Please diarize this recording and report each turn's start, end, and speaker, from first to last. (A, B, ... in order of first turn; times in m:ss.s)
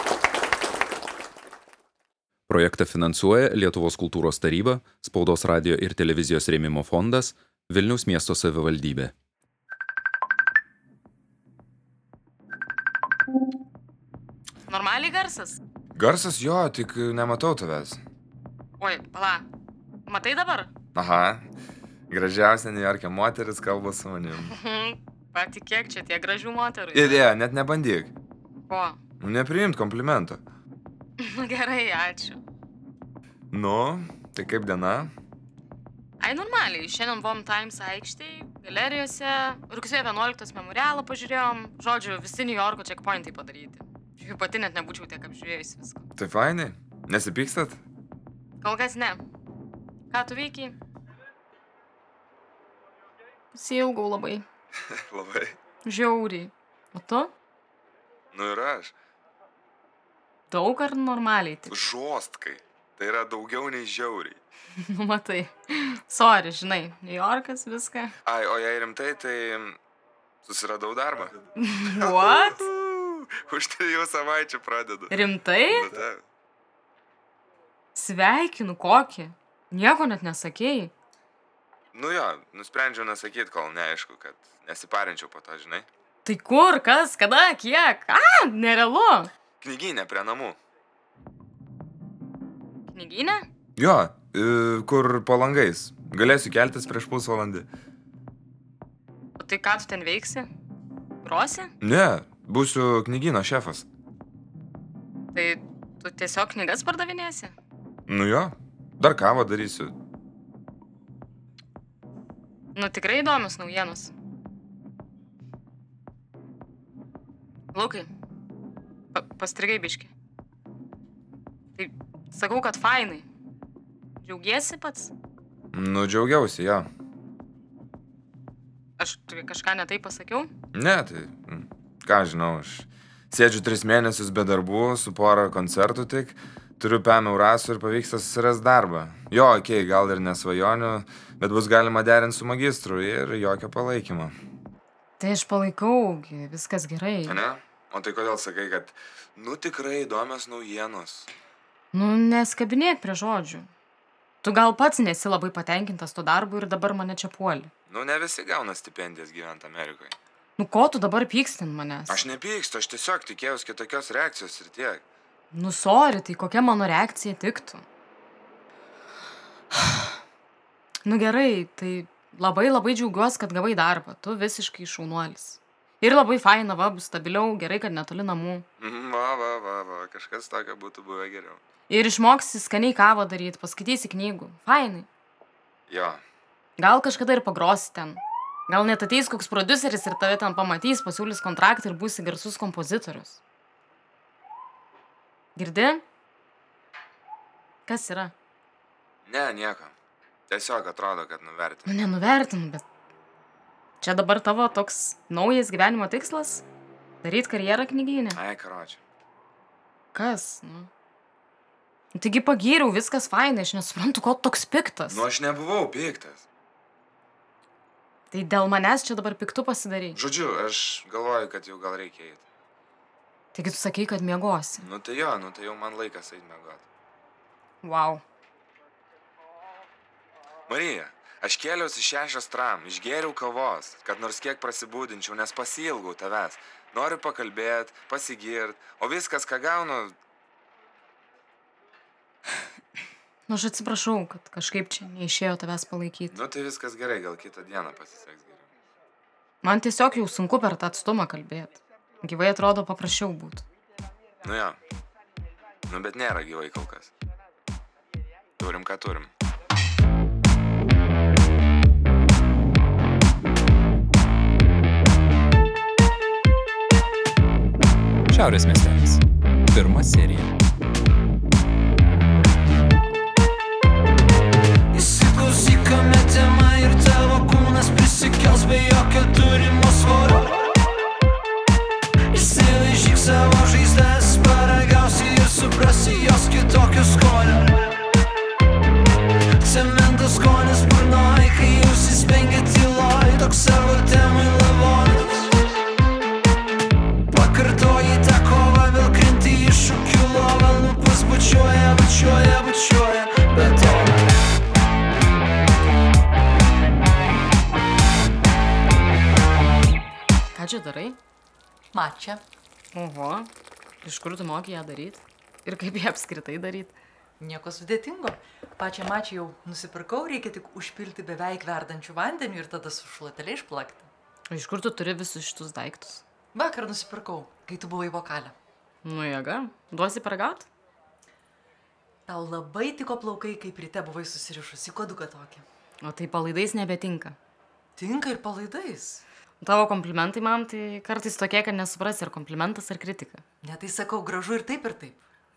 0:02.5-0:09.1 A
0:14.7-0:15.6 B
0:16.0-0:18.0 C
0:18.8-0:19.4 B
0:20.1-0:20.7 B
0:20.9-0:21.4 C
0:22.1-0:24.5 C
0:24.5-0:27.2 B
0:26.9-0:28.1 C
0:28.7-0:29.0 B
0:29.2-0:30.4 C
0:31.2-0:32.4 B
0:33.5-0:35.1 C
0:36.2-0:46.0 B
0:46.2-0:47.8 C
0:48.6-0:49.2 B
0:50.1-0:50.8 B
0:53.5-0:54.4 B
0:55.0-0:55.6 C
0:55.8-0:57.3 B
0:58.3-0:58.9 C
1:00.5-1:01.8 B
1:01.7-1:04.4 C
1:04.7-1:08.1 B
1:08.2-1:09.8 C
1:10.4-1:11.4 C
1:11.6-1:12.6 B
1:12.0-1:15.1 C
1:15.1-1:15.9 B
1:15.7-1:16.2 C
1:17.9-1:20.9 B
1:21.9-1:25.9 C
1:26.2-1:29.3 B
1:29.6-1:30.6 C
1:32.9-1:33.4 B
1:33.8-1:37.7 C
1:39.4-1:40.5 B
1:41.2-1:41.7 B
1:41.8-1:43.8 C
1:45.3-1:47.5 B
1:48.1-1:49.9 C
1:52.7-1:54.1 B
1:57.7-1:58.1 B
1:59.1-2:00.1 B
2:01.8-2:03.2 B
2:04.2-2:05.1 B
2:05.7-2:06.8 C
2:09.0-2:10.5 B
2:10.7-2:24.3 C
2:25.2-2:27.4 B
2:27.2-2:31.3 C
2:31.9-2:33.7 B
2:34.4-2:37.7 B
2:37.9-2:40.1 C
2:40.6-2:42.2 B
2:42.1-2:45.0 C
2:45.5-2:47.8 B
2:49.7-2:50.1 B
2:51.0-2:58.6 B
2:58.8-3:01.6 C
3:01.9-3:05.1 B
3:05.9-3:06.2 C
3:06.8-3:13.4 B
3:15.6-3:16.0 B
3:17.8-3:18.3 B
3:19.2-3:19.9 C
3:20.5-3:21.9 C
3:21.8-3:22.8 B
3:24.0-3:26.6 B
3:27.2-3:28.4 B
3:28.3-3:29.0 C
3:30.1-3:30.9 B
3:32.1-3:35.2 B
3:35.1-3:36.4 C
3:38.3-3:40.2 B
3:40.1-3:42.4 C
3:43.5-3:44.8 B
3:44.8-3:46.8 C
3:47.8-3:48.2 B
3:50.7-4:00.2 C
4:03.5-4:06.4 B
4:06.3-4:08.6 C
4:09.6-4:13.6 B
4:14.4-4:14.8 C
4:15.9-4:17.1 C
4:18.6-4:19.3 C
4:28.3-4:30.5 A
4:34.9-4:40.7 D
4:42.3-4:47.9 D
4:49.6-4:55.5 D
4:57.3-5:04.2 D
5:10.5-5:11.2 B
5:11.9-5:12.4 E
5:12.9-5:13.5 B
5:14.0-5:17.0 B
5:17.4-5:24.1 E
5:24.5-5:26.2 B
5:26.5-5:28.6 E
5:29.0-5:30.7 B
5:32.3-5:35.6 E
5:36.0-5:37.4 B
5:38.0-5:39.2 E
5:39.6-5:43.4 B
5:43.6-5:45.2 E